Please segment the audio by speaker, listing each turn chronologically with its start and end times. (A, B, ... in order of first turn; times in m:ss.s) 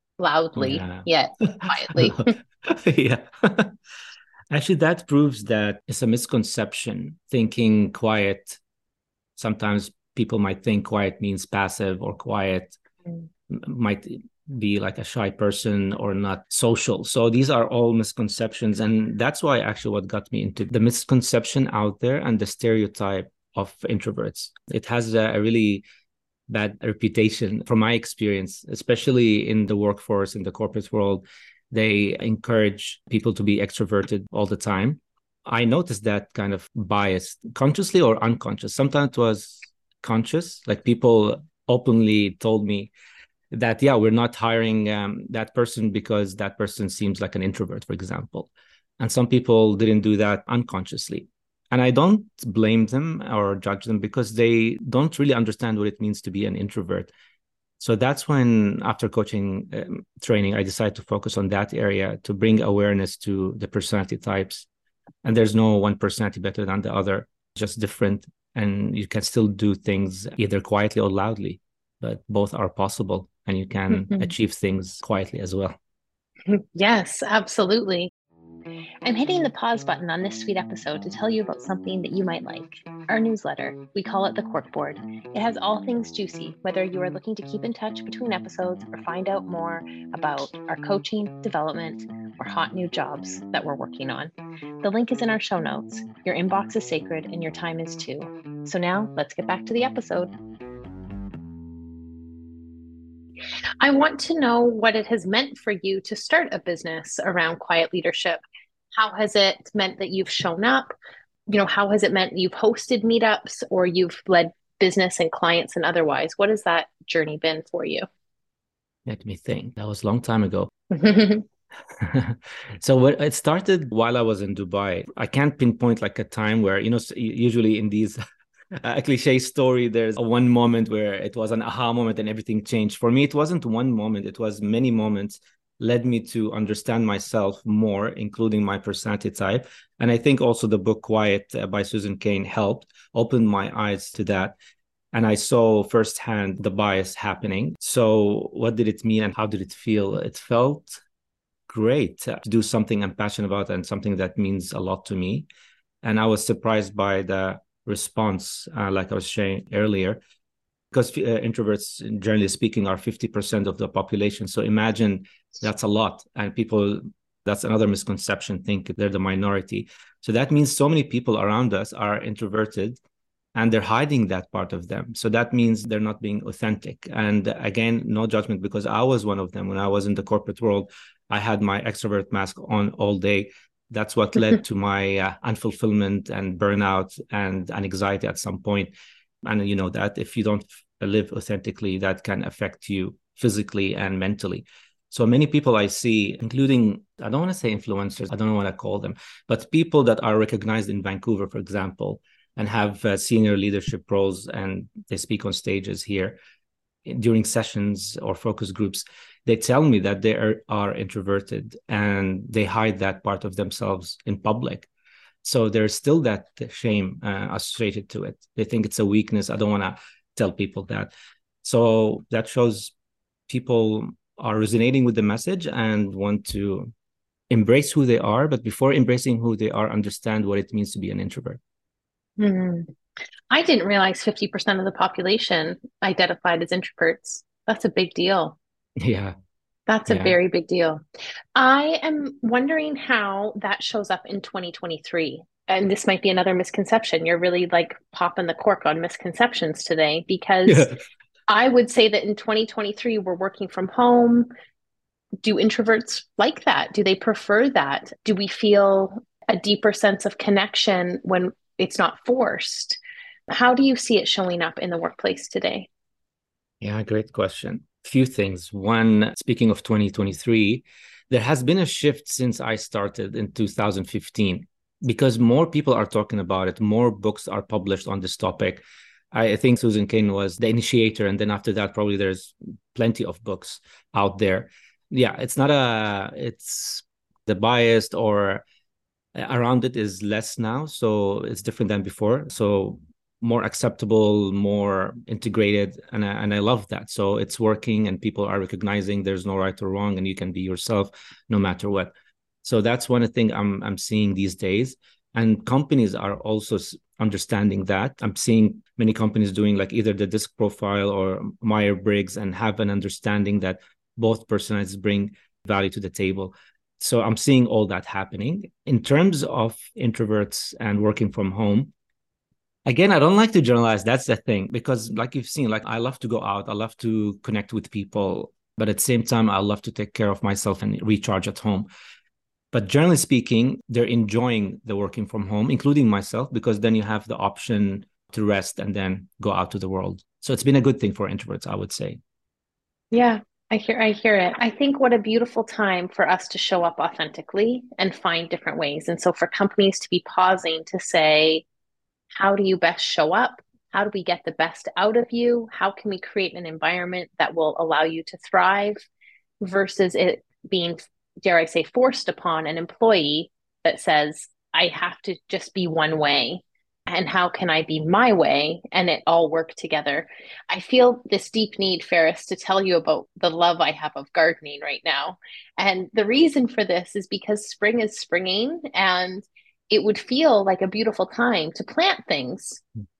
0:00.2-0:02.3 A
0:00.6-0:03.8 B
0:04.5-0:08.6 B
0:09.4-0:12.8 B
0:13.5-0:25.8 B
0:26.5-0:42.9 B
0:43.5-0:57.1 B
0:57.8-1:04.7 B
1:05.2-1:15.8 B
1:13.9-1:14.3 A
1:16.5-1:18.1 A
1:19.0-1:34.3 A
1:34.8-1:40.3 A
1:43.8-1:48.4 A
1:48.9-1:50.9 A
1:51.5-1:58.0 A
1:59.0-2:00.7 B
2:00.9-2:01.4 A
2:01.9-2:08.2 B
2:08.8-2:24.6 B
2:25.1-2:31.0 B
2:31.7-2:35.5 B
2:36.0-2:40.2 B
2:40.9-2:53.0 B
2:53.5-3:08.9 B
3:09.4-3:26.4 B
3:27.0-3:34.9 B
3:35.4-3:41.1 B
3:41.6-3:42.9 B
3:43.5-3:46.9 B
3:47.5-3:51.6 B
3:52.4-3:52.9 A
3:53.5-3:58.6 A
3:59.0-3:59.3 B
3:59.9-4:01.0 A
4:00.1-4:00.4 B
4:01.5-4:10.9 A
4:10.7-4:11.0 B
4:11.5-4:14.5 A
4:15.4-4:25.9 A
4:26.8-4:48.6 B
4:49.3-5:02.1 B
5:02.6-5:21.9 B
5:22.8-5:31.9 B
5:32.7-5:42.2 B
5:43.1-5:51.6 A
5:52.4-5:59.1 A
5:59.6-6:22.8 A